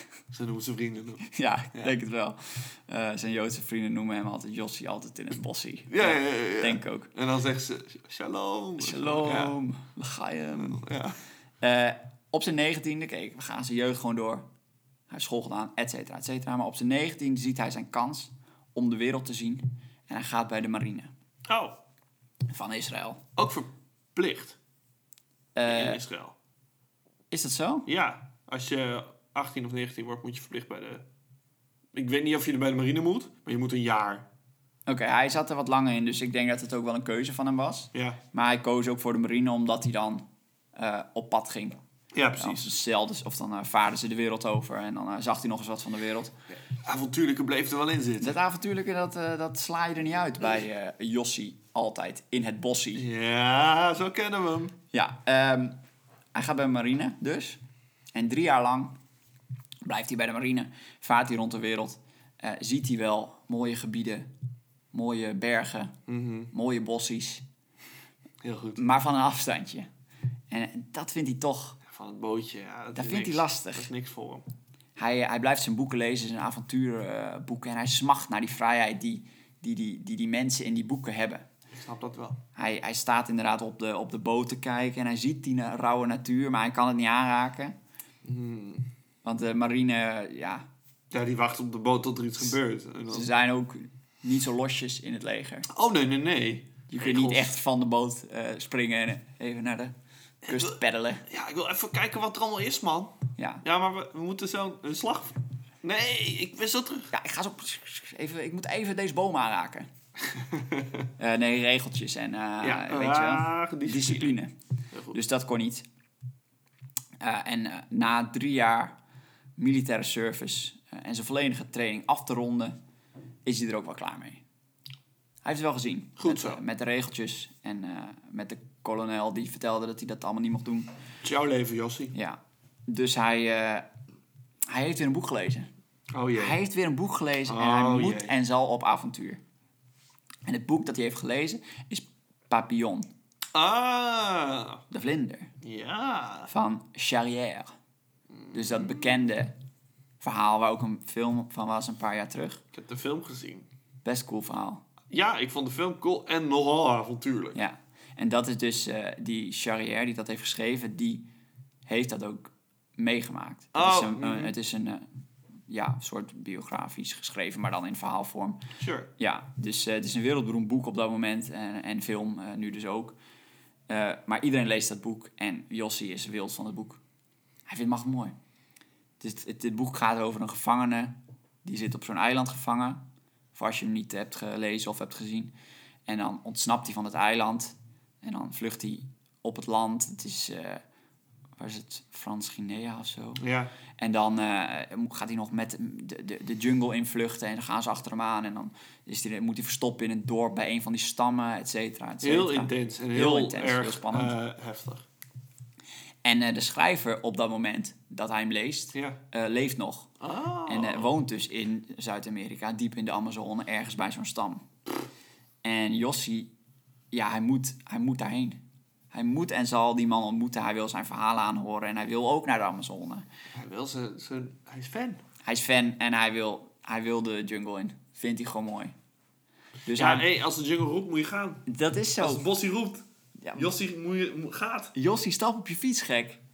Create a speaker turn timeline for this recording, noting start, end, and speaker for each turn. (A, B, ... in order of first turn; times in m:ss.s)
0:00.3-0:01.9 A
0:01.2-0:07.1 B
0:05.9-0:09.6 A
0:08.8-0:10.8 B
0:10.5-0:11.2 A
0:11.6-0:14.4 B
0:15.1-0:21.1 B
0:21.5-0:21.8 A
0:22.5-0:23.2 B
0:23.4-0:24.6 A
0:25.5-0:26.0 B
0:25.6-0:26.3 A
0:27.3-0:27.9 B
0:27.8-0:31.0 A
0:31.9-0:34.3 A
0:34.8-0:41.8 B
0:37.9-0:38.2 A
0:42.1-0:42.7 A
0:42.4-0:46.3 B
0:46.6-0:48.4 A
0:48.2-0:53.0 B
0:52.9-0:54.7 A
0:54.9-0:55.8 B
0:56.3-0:57.6 B
0:58.1-0:59.0 B
0:59.8-1:04.3 B
1:04.9-1:06.0 B
1:06.1-1:06.5 A
1:06.5-1:07.4 B
1:08.4-1:08.8 A
1:08.8-1:09.9 B
1:10.5-1:11.8 B
1:11.8-1:14.4 A
1:12.9-1:13.9 B
1:15.0-1:21.4 B
1:21.7-1:22.4 A
1:22.6-1:27.8 B
1:28.2-1:28.9 A
1:29.2-1:30.6 B
1:31.1-1:33.3 A
1:33.1-1:35.7 B
1:35.7-1:37.6 A
1:36.9-1:40.0 B
1:40.4-1:47.1 A
1:40.5-1:41.2 B
1:43.4-1:43.6 B
1:47.1-1:49.9 B
1:50.3-1:51.1 A
1:51.2-1:54.5 B
1:52.6-1:54.4 A
1:54.9-1:55.2 A
1:55.1-1:55.8 B
1:57.2-1:59.0 B
1:59.6-2:02.8 B
2:03.4-2:04.4 B
2:05.4-2:10.9 B
2:06.2-2:06.6 A
2:11.2-2:12.1 A
2:12.1-2:13.9 B
2:14.7-2:15.7 B
2:16.1-2:16.6 A
2:16.3-2:19.4 B
2:17.5-2:18.3 A
2:20.4-2:23.1 B
2:23.5-2:24.8 A
2:24.9-2:25.5 B
2:25.6-2:26.5 A
2:26.5-2:27.7 B
2:28.3-2:29.1 A
2:28.5-2:29.5 B
2:30.2-2:32.6 B
2:32.7-2:33.7 A
2:34.0-2:34.8 B
2:35.1-2:37.6 A
2:37.5-2:41.2 B
2:41.8-2:45.0 B
2:43.7-2:44.5 A
2:45.7-2:48.6 B
2:48.8-2:49.1 A
2:49.2-2:53.2 B
2:53.9-2:57.0 B
2:57.7-2:58.3 B
2:59.2-3:03.0 B
3:03.5-3:05.5 B
3:06.0-3:10.8 B
3:11.6-3:13.4 B
3:13.4-3:13.7 A
3:14.0-3:24.3 B
3:22.2-3:25.0 A
3:26.2-3:30.1 B
3:28.9-3:29.2 A
3:30.2-3:31.1 A
3:30.7-3:34.6 B
3:35.6-3:36.5 B
3:37.1-3:38.6 B
3:39.1-3:43.2 B
3:43.5-3:45.2 A
3:45.4-3:48.9 B
3:49.8-3:50.3 B
3:49.9-3:51.7 A
3:51.6-3:52.5 B
3:52.2-3:54.9 A
3:53.4-3:53.7 B
3:54.9-3:56.4 B